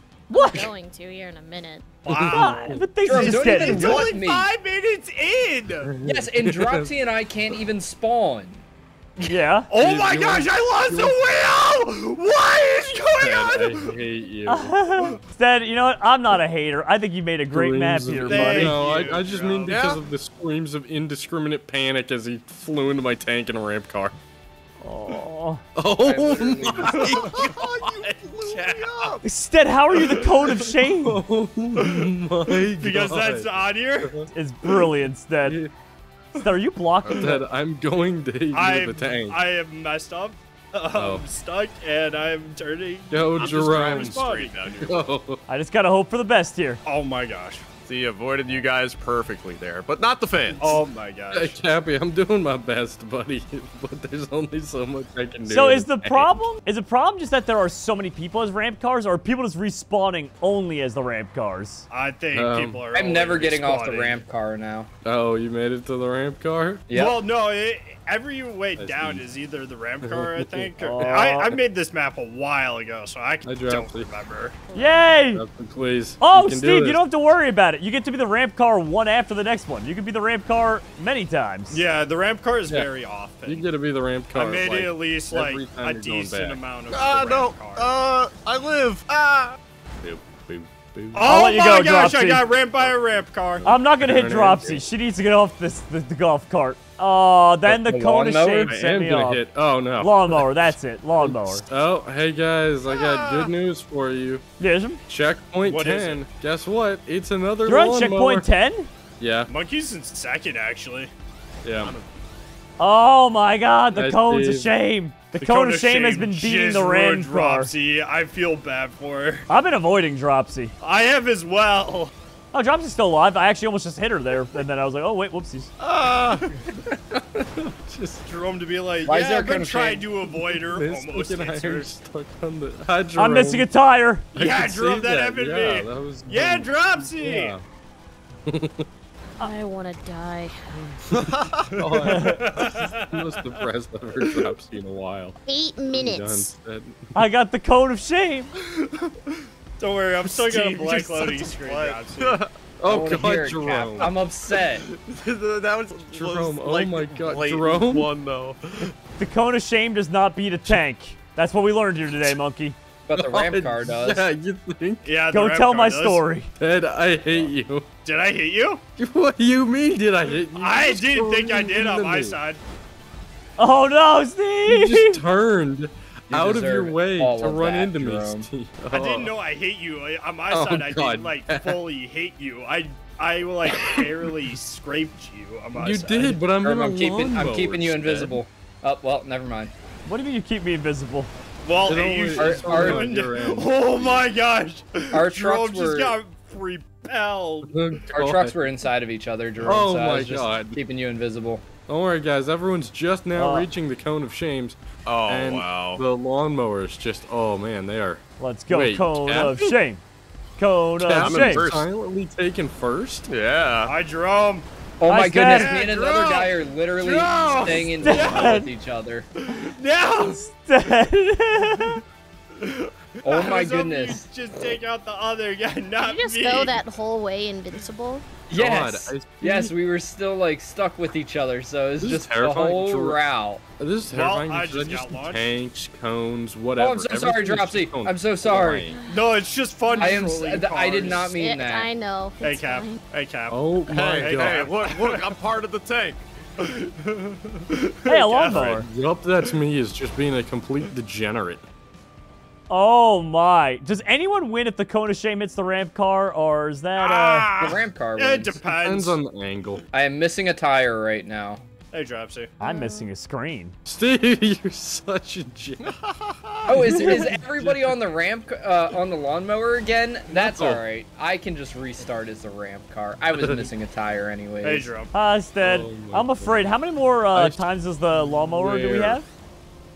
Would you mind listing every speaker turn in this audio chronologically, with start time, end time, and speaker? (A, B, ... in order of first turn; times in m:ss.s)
0:00.3-0:00.7 A
0:00.3-0:01.9 B
0:02.0-0:05.9 C
0:02.1-0:03.0 D
0:02.3-0:04.0 A
0:03.0-0:04.5 E
0:05.9-0:06.9 D
0:06.0-0:08.6 E
0:09.3-0:09.7 A
0:09.7-0:14.0 C
0:09.7-0:11.2 D
0:13.0-0:14.9 D
0:14.5-0:18.8 A
0:17.5-0:24.2 D
0:18.2-0:19.8 C
0:18.9-0:20.0 F
0:24.8-0:25.6 A
0:25.8-0:27.9 D
0:26.0-0:27.3 E
0:26.8-0:29.2 F
0:27.0-0:27.3 C
0:29.2-0:31.2 A
0:30.8-0:34.3 D
0:31.8-0:34.1 C
0:34.3-0:35.6 A
0:35.4-0:35.7 D
0:36.3-0:37.4 A
0:37.0-0:39.4 D
0:38.5-0:44.6 C
0:40.9-0:41.2 D
0:43.1-0:44.2 D
0:43.4-0:45.1 F
0:44.9-0:45.4 D
0:45.5-0:46.8 A
0:46.8-0:47.6 C
0:47.8-0:50.8 F
0:50.6-0:51.6 C
0:51.3-0:56.4 D
0:55.5-1:01.9 A
1:01.9-1:04.2 C
1:02.3-1:02.8 D
1:02.9-1:04.9 E
1:05.0-1:06.9 D
1:06.9-1:07.2 E
1:06.9-1:14.5 C
1:08.8-1:09.2 D
1:10.0-1:10.7 D
1:10.8-1:11.5 A
1:13.4-1:14.1 D
1:14.7-1:15.1 B
1:14.7-1:15.4 A
1:15.3-1:17.0 D
1:16.2-1:21.8 A
1:21.7-1:23.7 C
1:23.4-1:26.6 D
1:24.3-1:27.9 C
1:26.9-1:29.6 F
1:30.0-1:31.4 D
1:31.1-1:33.7 C
1:31.2-1:32.4 A
1:32.8-1:34.8 D
1:33.6-1:39.4 A
1:37.7-1:38.7 E
1:38.6-1:40.5 D
1:40.0-1:41.6 A
1:41.2-1:44.4 D
1:42.9-1:43.5 F
1:44.6-1:45.0 A
1:45.1-1:48.5 D
1:45.6-1:46.2 C
1:47.6-1:48.9 A
1:49.2-1:49.5 D
1:49.5-1:51.1 C
1:51.6-1:51.9 D
1:51.8-1:52.0 F
1:52.8-1:57.7 A
1:53.9-1:54.7 D
1:55.3-1:59.5 C
1:59.5-2:00.7 A
2:00.8-2:02.1 C
2:02.5-2:05.7 A
2:05.8-2:06.6 F
2:07.1-2:08.2 D
2:08.2-2:11.9 C
2:09.0-2:10.1 E
2:10.4-2:13.7 D
2:13.2-2:14.3 A
2:14.3-2:17.6 C
2:14.3-2:17.6 D
2:18.4-2:18.8 D
2:19.4-2:20.6 B
2:21.1-2:21.9 F
2:21.7-2:25.3 D
2:22.0-2:23.6 C
2:22.0-2:22.4 A
2:25.4-2:26.5 B
2:25.9-2:27.1 D
2:27.1-2:28.5 A
2:28.9-2:32.4 C
2:30.2-2:32.5 F
2:32.8-2:34.1 D
2:32.8-2:34.8 E
2:34.9-2:38.9 F
2:36.1-2:38.1 D
2:39.2-2:42.8 A
2:43.0-2:44.3 E
2:43.1-2:45.0 D
2:45.0-2:46.2 C
2:45.3-2:46.5 A
2:46.6-2:47.9 D
2:48.0-2:48.8 C
2:49.0-2:52.4 D
2:50.5-2:52.6 C
2:53.6-2:55.2 A
2:54.6-2:59.3 D
2:56.3-2:58.5 E
2:58.9-3:06.5 C
3:00.5-3:01.8 D
3:03.7-3:04.1 D
3:05.8-3:08.4 D
3:06.6-3:09.7 E
3:10.0-3:11.3 A
3:11.6-3:17.8 C
3:11.8-3:14.2 D
3:12.3-3:13.1 E
3:15.1-3:16.2 E
3:17.7-3:18.6 D
3:18.1-3:21.7 E
3:19.6-3:20.8 D
3:21.8-3:24.8 D
3:23.4-3:23.7 A
3:25.0-3:26.0 F
3:25.3-3:29.8 D
3:28.4-3:30.0 A
3:30.6-3:31.6 A
3:31.0-3:33.3 D
3:31.2-3:31.9 F
3:33.3-3:33.9 F
3:33.9-3:34.6 C
3:35.0-3:39.3 E
3:35.1-3:35.8 A
3:35.4-3:36.5 C
3:35.8-3:36.5 F
3:37.0-3:38.6 C
3:37.2-3:38.0 F
3:38.0-3:38.7 A
3:39.4-3:40.4 C
3:40.2-3:42.0 A
3:41.6-3:42.0 C
3:42.6-3:46.8 C
3:43.2-3:44.2 E
3:46.0-3:48.2 B
3:48.5-3:53.6 E
3:48.5-3:49.7 D
3:52.0-3:53.2 D
3:53.8-3:59.0 D
3:54.1-3:55.5 C
3:56.8-3:58.9 E
3:58.9-3:59.4 B
3:59.1-4:01.3 C
3:59.9-4:00.2 B
4:00.0-4:01.9 E
4:01.2-4:03.0 B
4:02.4-4:05.3 C
4:03.5-4:04.7 D
4:03.9-4:06.2 F
4:06.6-4:08.7 C
4:08.1-4:08.9 A
4:08.5-4:11.6 D
4:12.7-4:17.5 A
4:17.0-4:19.2 C
4:17.6-4:18.6 E
4:18.8-4:19.8 D
4:19.9-4:21.6 E
4:21.9-4:22.5 C
4:22.6-4:23.7 A
4:22.6-4:23.1 B
4:23.8-4:25.9 D
4:25.8-4:27.2 F
4:26.7-4:34.9 E
4:26.7-4:28.0 D
4:30.3-4:30.8 D
4:33.4-4:33.7 D
4:34.6-4:35.1 C
4:35.1-4:39.3 A
4:35.6-4:36.7 D
4:37.3-4:37.6 D
4:38.1-4:39.2 D